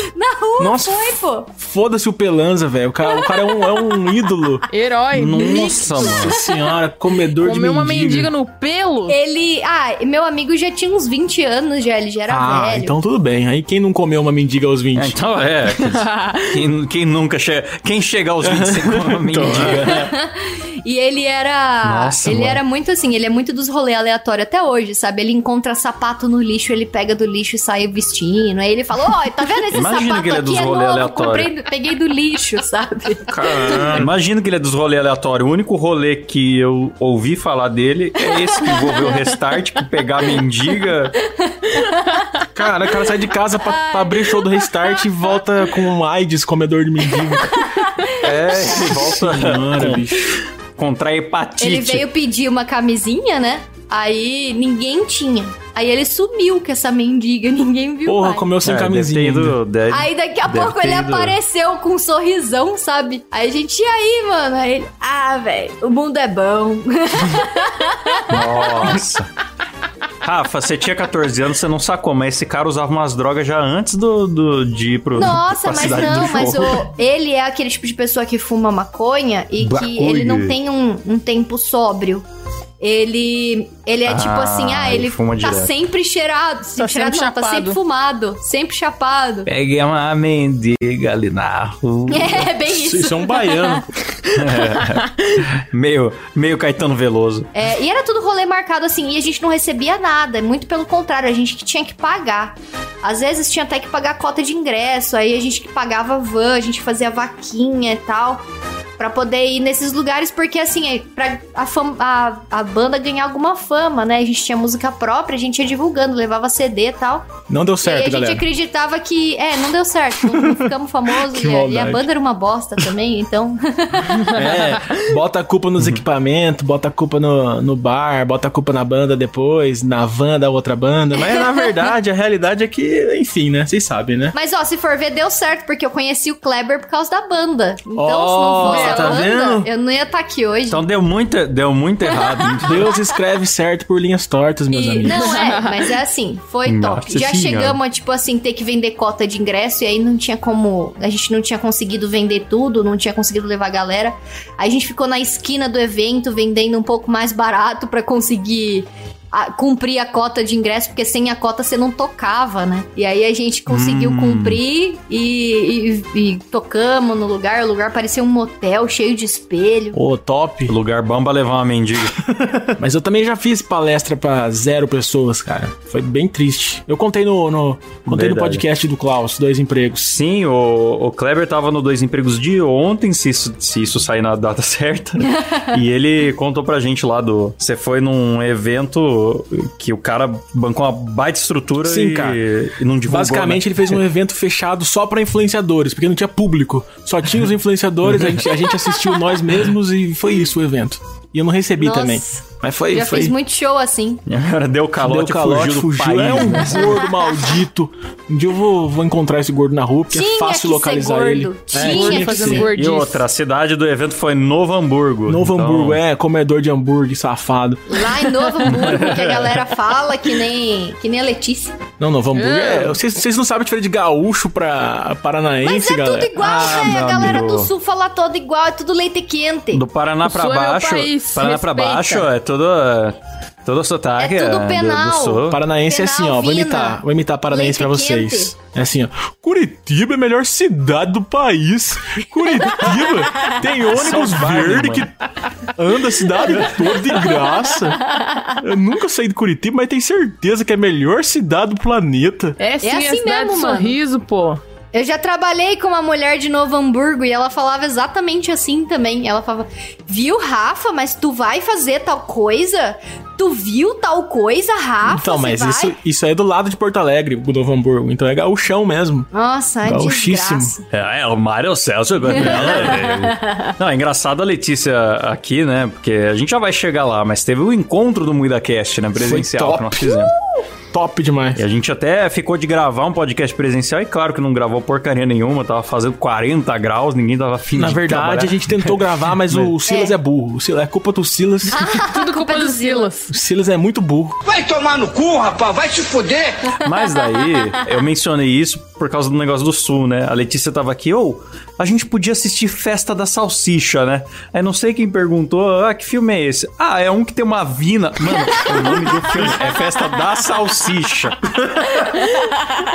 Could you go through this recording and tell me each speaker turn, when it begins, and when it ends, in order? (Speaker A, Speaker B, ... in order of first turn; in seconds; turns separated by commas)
Speaker A: 0.1-1.5, Speaker B: 0.6-4.7, Speaker A: 3.1-3.9, Speaker C: 4.7-6.3, Speaker D: 5.1-6.3, Speaker B: 5.4-8.3, Speaker C: 7.4-9.2, Speaker A: 9.1-12.9, Speaker B: 12.3-15.2, Speaker D: 14.9-20.1, Speaker C: 15.8-16.6, Speaker B: 18.4-20.1, Speaker A: 19.7-33.9, Speaker D: 21.8-22.6, Speaker D: 29.7-31.5, Speaker B: 33.3-34.1, Speaker D: 33.6-41.2, Speaker A: 38.7-39.1, Speaker A: 41.4-42.2, Speaker B: 42.5-47.7, Speaker A: 43.6-44.9, Speaker A: 47.4-48.3, Speaker D: 48.2-52.0, Speaker B: 48.5-50.3, Speaker A: 51.6-58.5, Speaker B: 58.0-59.6, Speaker D: 58.6-61.4, Speaker A: 59.9-69.0, Speaker D: 68.3-69.3, Speaker D: 70.2-76.9, Speaker A: 75.2-82.2, Speaker D: 79.6-80.5, Speaker A: 82.8-89.5, Speaker D: 84.0-85.7, Speaker C: 86.8-87.8, Speaker D: 89.5-92.5, Speaker A: 92.1-93.8, Speaker B: 92.7-93.8, Speaker D: 94.3-97.5, Speaker A: 97.5-108.4, Speaker A: 109.0-117.3, Speaker B: 117.5-118.5, Speaker A: 117.8-124.4, Speaker B: 120.2-122.1, Speaker B: 124.3-134.3, Speaker A: 134.3-140.8, Speaker B: 137.9-139.7, Speaker C: 138.6-139.2, Speaker D: 140.7-142.9, Speaker B: 142.6-145.4, Speaker A: 144.7-170.0, Speaker C: 145.1-145.9, Speaker D: 146.7-147.8, Speaker D: 163.7-164.6, Speaker B: 169.9-170.7, Speaker D: 170.7-172.2, Speaker B: 172.7-180.2, Speaker D: 178.1-178.7, Speaker D: 180.0-194.0, Speaker B: 191.8-192.4, Speaker B: 193.1-203.3, Speaker A: 201.8-204.2, Speaker D: 204.3-206.9, Speaker B: 205.0-212.7, Speaker A: 210.1-212.7, Speaker C: 211.8-213.2, Speaker D: 212.7-216.0, Speaker B: 215.3-218.1, Speaker A: 217.9-221.8, Speaker D: 218.7-219.4, Speaker B: 222.0-226.9, Speaker C: 222.3-222.9, Speaker A: 225.6-229.8, Speaker D: 226.4-227.7, Speaker D: 229.7-235.6, Speaker C: 230.2-232.2, Speaker A: 234.2-238.5, Speaker B: 235.5-245.1, Speaker D: 243.9-245.1, Speaker B: 245.7-248.0, Speaker A: 248.1-248.6, Speaker B: 248.6-252.6, Speaker C: 252.6-254.6, Speaker A: 252.8-254.0, Speaker A: 254.9-265.9, Speaker B: 265.0-269.3, Speaker A: 269.3-270.9, Speaker B: 269.8-270.7, Speaker D: 270.9-280.3, Speaker B: 272.3-273.1, Speaker A: 272.4-273.7, Speaker B: 279.1-280.3, Speaker B: 280.9-281.6, Speaker D: 281.6-289.7, Speaker B: 287.7-291.9, Speaker A: 289.9-290.1, Speaker A: 291.7-293.1, Speaker C: 292.0-293.3, Speaker B: 293.3-294.4, Speaker E: 294.4-296.8, Speaker D: 296.8-312.1